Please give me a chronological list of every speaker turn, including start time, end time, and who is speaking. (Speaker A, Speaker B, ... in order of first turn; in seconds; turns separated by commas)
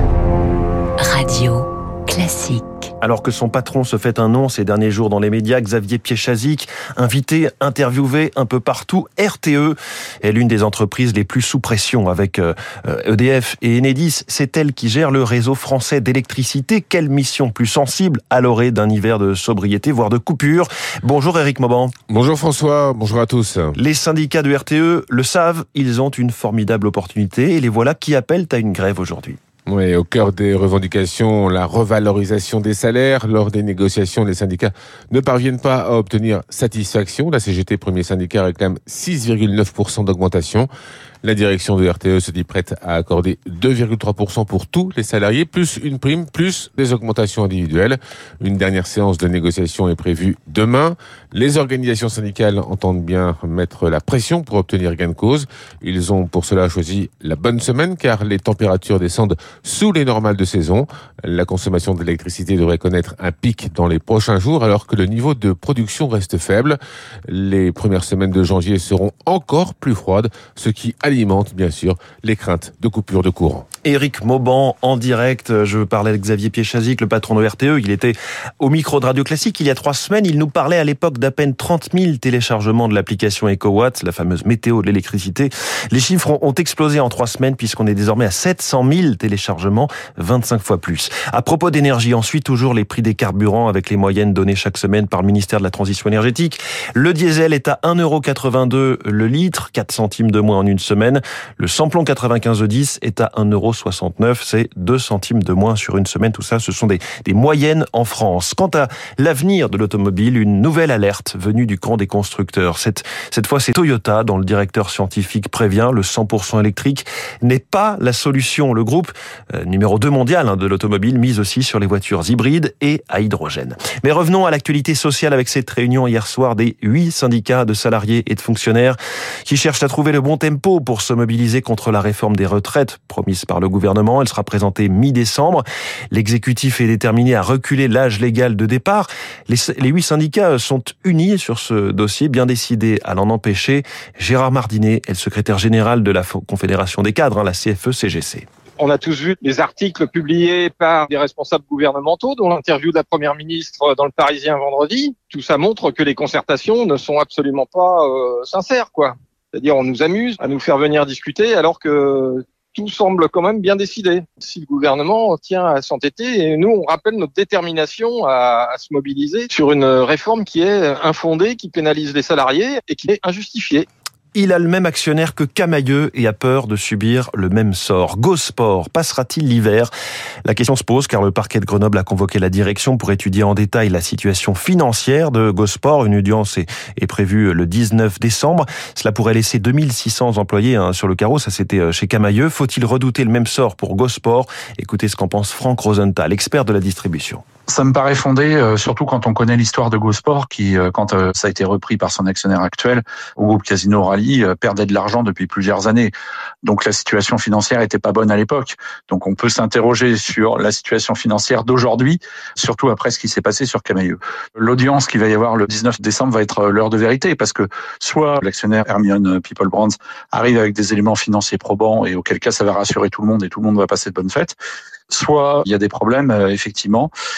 Speaker A: 1.0-2.9, Speaker B: 3.0-21.9, Speaker C: 22.1-23.8, Speaker B: 23.8-29.4, Speaker C: 29.7-40.7, Speaker C: 41.2-73.7, Speaker B: 73.8-148.5, Speaker D: 148.8-173.9, Speaker B: 174.3-179.9, Speaker B: 180.4-197.4, Speaker E: 197.7-206.1, Speaker E: 206.6-224.6, Speaker E: 225.1-227.1